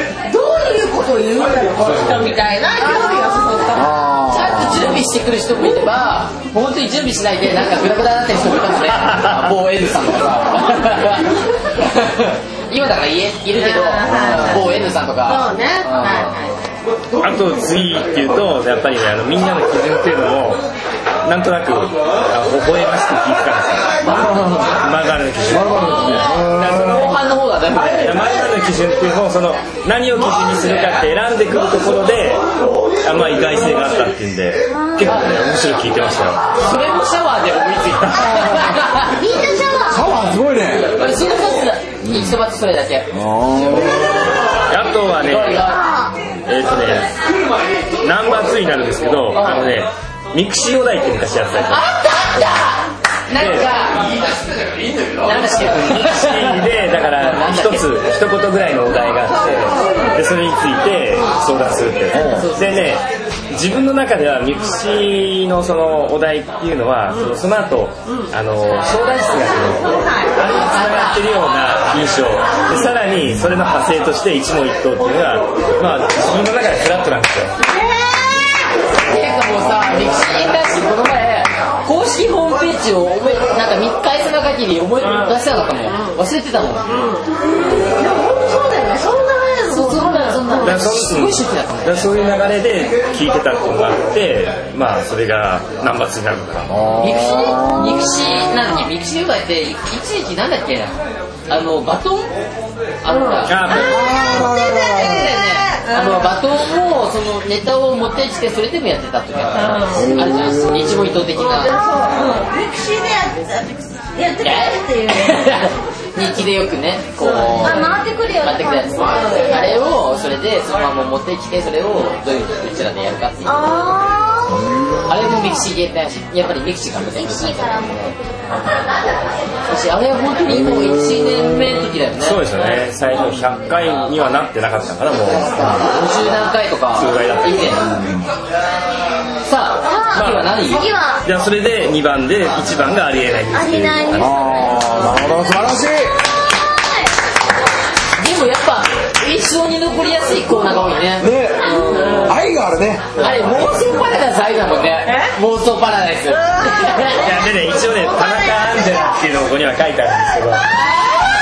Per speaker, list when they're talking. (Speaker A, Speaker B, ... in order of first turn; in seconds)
Speaker A: 0.3-4.0, 13.5-16.6, 69.9-70.3, 77.6-78.5, 86.9-90.8, 103.1-106.3, 109.5-110.1, 111.4-115.6, 117.2-117.9, 119.0-119.7, 123.4-123.9, 155.1-155.3, 156.5-157.3, 158.2-158.5
Speaker B: 1.8-2.1, 17.2-20.6, 21.2-24.0, 24.8-32.4, 33.0-36.4, 38.2-38.5, 44.7-45.7, 46.5-47.1, 48.0-51.8, 53.4-53.7, 55.5-77.5, 90.6-96.7, 103.5-104.2, 132.2-135.9, 136.9-137.7, 140.1-140.4, 141.2-144.4, 157.2-160.7
Speaker C: 3.8-5.0, 24.1-24.8, 25.5-26.8, 39.9-40.9, 42.0-42.4, 43.1-44.2, 62.1-62.5, 96.7-98.0, 103.9-105.2, 137.7-138.3, 144.1-146.2, 151.2-153.2
Speaker D: 4.3-16.3, 25.9-28.2, 35.0-35.4, 36.5-39.2, 40.9-43.1, 45.2-45.9, 49.4-49.7, 51.7-54.1, 55.2-56.6, 57.2-57.9, 62.1-62.8, 70.4-71.2, 78.9-86.9, 89.7-92.0, 97.0-102.3, 103.0-111.8, 114.4-123.6, 125.1-128.1, 129.7-132.4, 135.2-137.9, 139.4-140.9, 148.2-152.3, 153.1-157.3
Speaker E: 117.7-119.7, 127.2-129.1, 139.8-141.2, 143.5-145.2